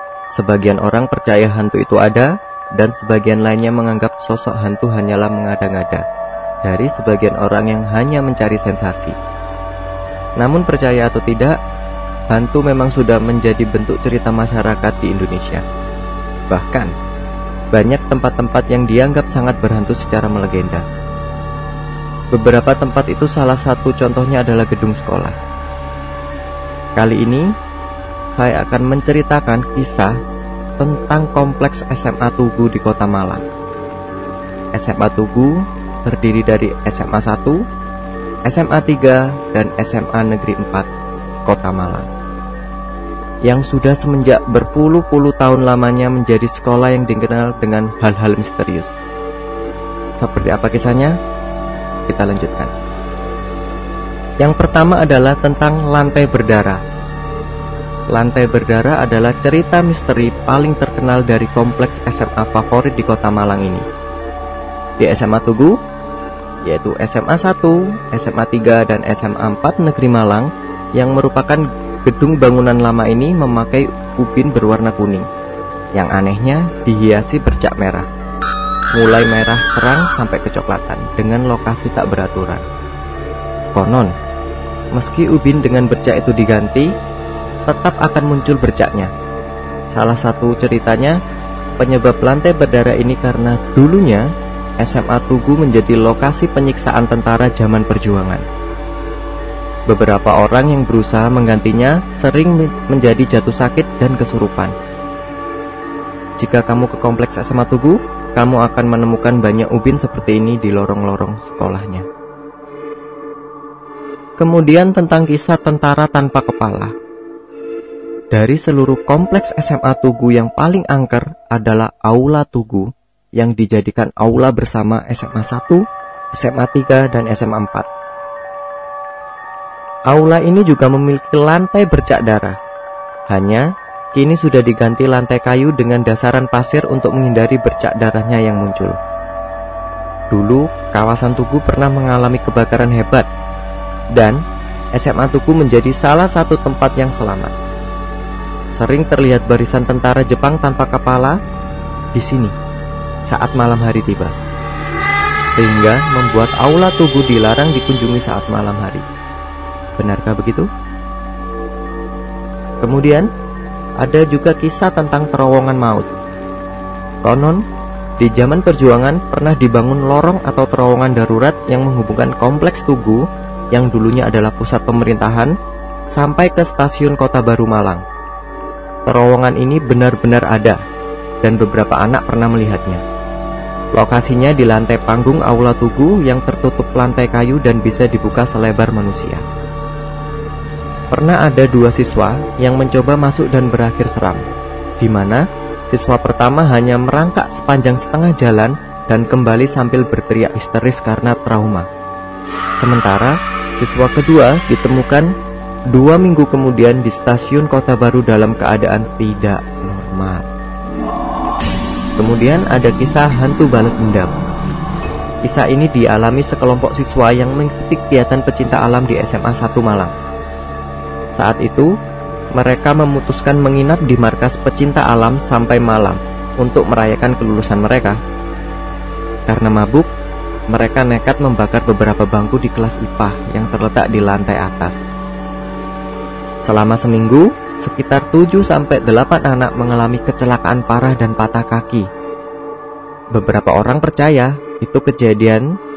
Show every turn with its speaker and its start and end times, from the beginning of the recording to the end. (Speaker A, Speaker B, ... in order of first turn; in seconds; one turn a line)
Speaker A: 0.3-6.0
Speaker A: 6.6-9.2
Speaker A: 10.4-11.6
Speaker A: 12.3-15.6
Speaker A: 16.5-16.9
Speaker A: 17.7-20.8
Speaker A: 22.3-25.4
Speaker A: 26.9-27.5
Speaker A: 28.3-30.1
Speaker A: 30.8-33.4
Speaker A: 34.7-37.6
Speaker A: 38.5-40.9
Speaker A: 41.5-42.1
Speaker A: 43.5-49.0
Speaker A: 50.2-51.1
Speaker A: 52.1-52.7
Speaker A: 54.4-56.8
Speaker A: 58.1-63.8
Speaker A: 65.0-65.8
Speaker A: 66.7-75.3
Speaker A: 76.0-78.1
Speaker A: 78.9-82.6
Speaker A: 83.7-84.1
Speaker A: 84.9-86.9
Speaker A: 87.7-89.1
Speaker A: 89.9-91.2
Speaker A: 91.8-94.3
Speaker A: 94.8-98.4
Speaker A: 99.9-104.7
Speaker A: 106.4-112.0
Speaker A: 114.4-116.9
Speaker A: 118.3-127.9
Speaker A: 130.1-132.6
Speaker A: 133.3-139.0
Speaker A: 140.3-143.3
Speaker A: 144.1-144.4
Speaker A: 144.9-147.5
Speaker A: 148.7-151.4
Speaker A: 152.1-152.5
Speaker A: 153.3-154.3
Speaker A: 155.6-159.0
Speaker A: 160.0-160.7
Speaker A: 162.8-163.3
Speaker A: 164.0-166.1
Speaker A: 167.2-167.6
Speaker A: 168.2-175.5
Speaker A: 176.1-178.0
Speaker A: 179.1-180.8
Speaker A: 181.4-183.0
Speaker A: 183.9-189.4
Speaker A: 191.1-194.4
Speaker A: 195.0-201.9
Speaker A: 202.8-205.3
Speaker A: 205.9-210.5
Speaker A: 212.2-214.4
Speaker A: 215.4-220.1
Speaker A: 221.4-221.9
Speaker A: 222.5-228.2
Speaker A: 229.5-230.1
Speaker A: 230.7-235.0
Speaker A: 236.6-242.1
Speaker A: 243.3-245.7